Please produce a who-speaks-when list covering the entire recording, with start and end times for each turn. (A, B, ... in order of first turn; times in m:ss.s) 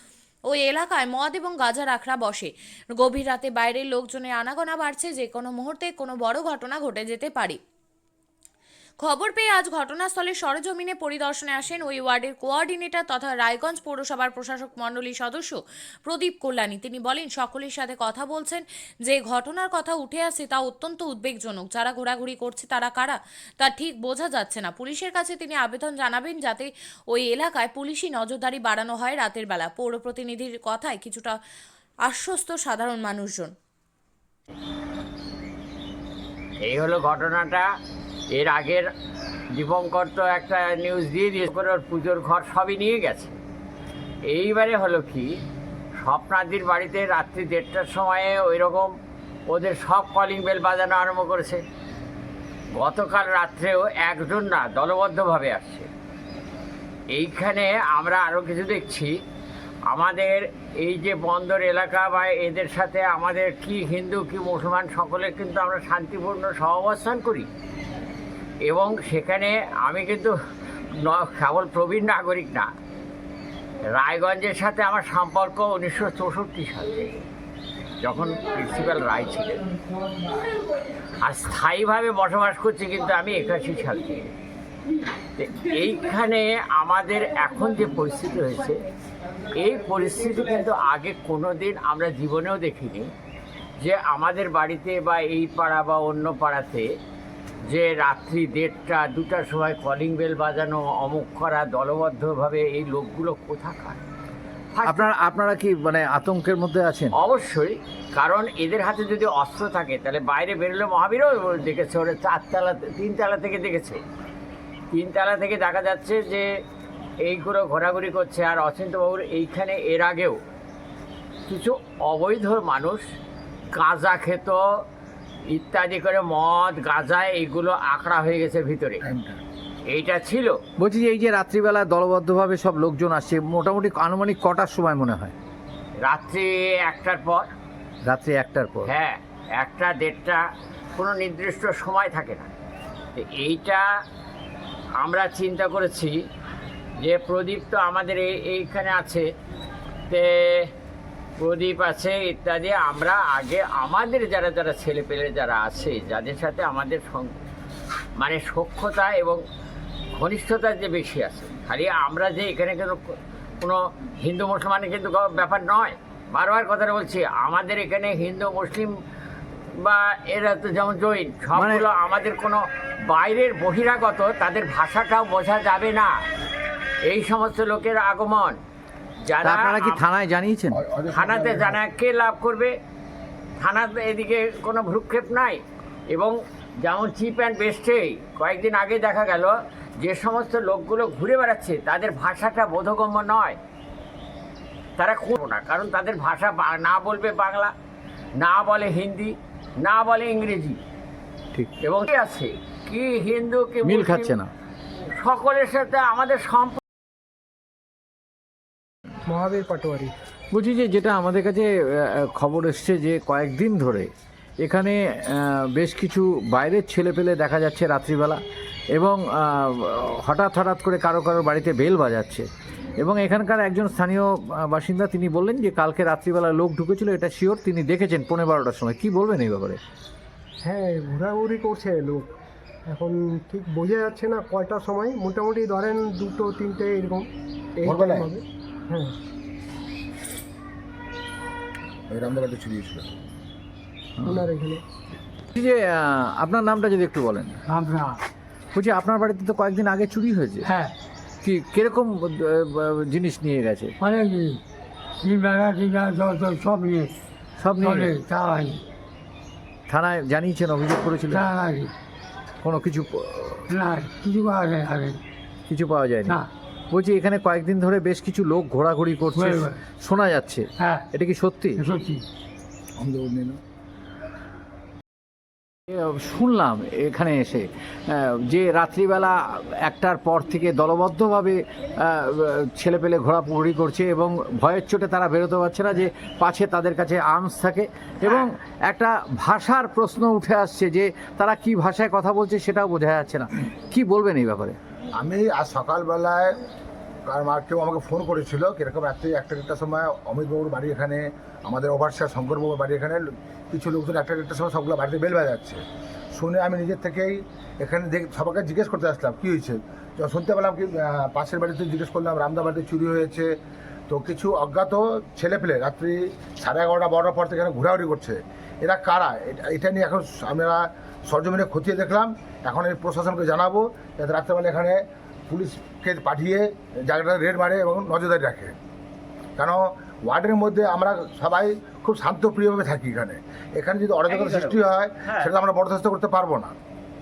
0:00.5-0:07.6 A
0:09.0-0:31.4 A
0:32.0-0:33.5 A
0:36.6-0:37.7 B
0:38.4-0:38.9 B
0:39.6-0:43.4 B
0:44.3-0:45.3 B
0:46.0-0:48.9 B
0:49.5-0:51.6 B
0:52.8-0:55.9 B
0:57.1-0:59.2 B
0:59.9-1:07.5 B
1:08.6-1:10.3 B
1:11.0-1:12.7 B
1:13.9-1:17.1 B
1:18.0-1:19.7 B
1:21.2-1:24.3 B
1:25.4-1:28.8 B
1:29.6-1:33.1 B
1:33.8-1:36.9 B
1:37.7-1:44.0 B
1:44.7-1:45.1 B
1:44.8-1:47.1 C
1:47.2-1:54.0 B
1:54.9-1:56.5 B
1:57.2-2:00.4 B
2:01.5-2:03.0 B
2:03.7-2:04.8 B
2:05.5-2:09.0 B
2:09.0-2:09.4 D
2:09.9-2:10.6 B
2:10.8-2:15.3 C
2:16.0-2:17.5 B
2:18.0-2:18.9 C
2:18.8-2:20.4 B
2:21.0-2:22.5 B
2:23.1-2:23.9 B
2:25.0-2:26.2 B
2:27.0-2:29.3 B
2:30.1-2:30.7 B
2:31.4-2:37.4 B
2:38.2-2:39.4 B
2:40.1-2:48.9 B
2:49.8-2:56.1 B
2:51.5-2:51.8 C
2:57.1-2:58.6 B
2:59.3-3:00.0 B
2:59.4-3:00.8 C
3:00.7-3:01.8 D
3:01.1-3:02.7 B
3:03.6-3:13.6 B
3:15.0-3:17.7 B
3:18.4-3:20.8 B
3:21.8-3:24.4 B
3:23.8-3:24.5 C
3:25.2-3:26.8 B
3:29.3-3:30.1 E
3:30.5-3:31.7 C
3:32.2-3:38.4 C
3:38.9-3:42.4 C
3:43.0-3:49.8 C
3:50.6-3:52.3 E
3:52.9-3:59.1 E
3:57.8-3:58.3 D
4:02.1-4:03.1 D
4:04.2-4:04.5 C
4:04.2-4:04.8 E
4:05.5-4:07.6 C
4:07.7-4:08.2 F
4:08.7-4:10.7 C
4:10.6-4:10.9 F
4:11.4-4:13.9 C
4:14.0-4:14.6 F
4:15.2-4:17.1 F
4:17.6-4:18.1 C
4:17.8-4:18.8 F
4:19.9-4:21.5 C
4:21.3-4:21.9 F
4:22.6-4:23.7 C
4:23.7-4:25.2 F
4:25.7-4:31.8 C
4:29.3-4:29.8 F
4:30.8-4:31.1 F
4:31.8-4:32.2 F
4:33.0-4:33.6 D
4:35.9-4:54.8 C
4:55.2-4:56.6 D
4:57.3-5:05.8 D
5:06.3-5:13.5 D
5:14.1-5:28.7 D
5:29.6-5:36.7 D
5:34.3-5:35.5 B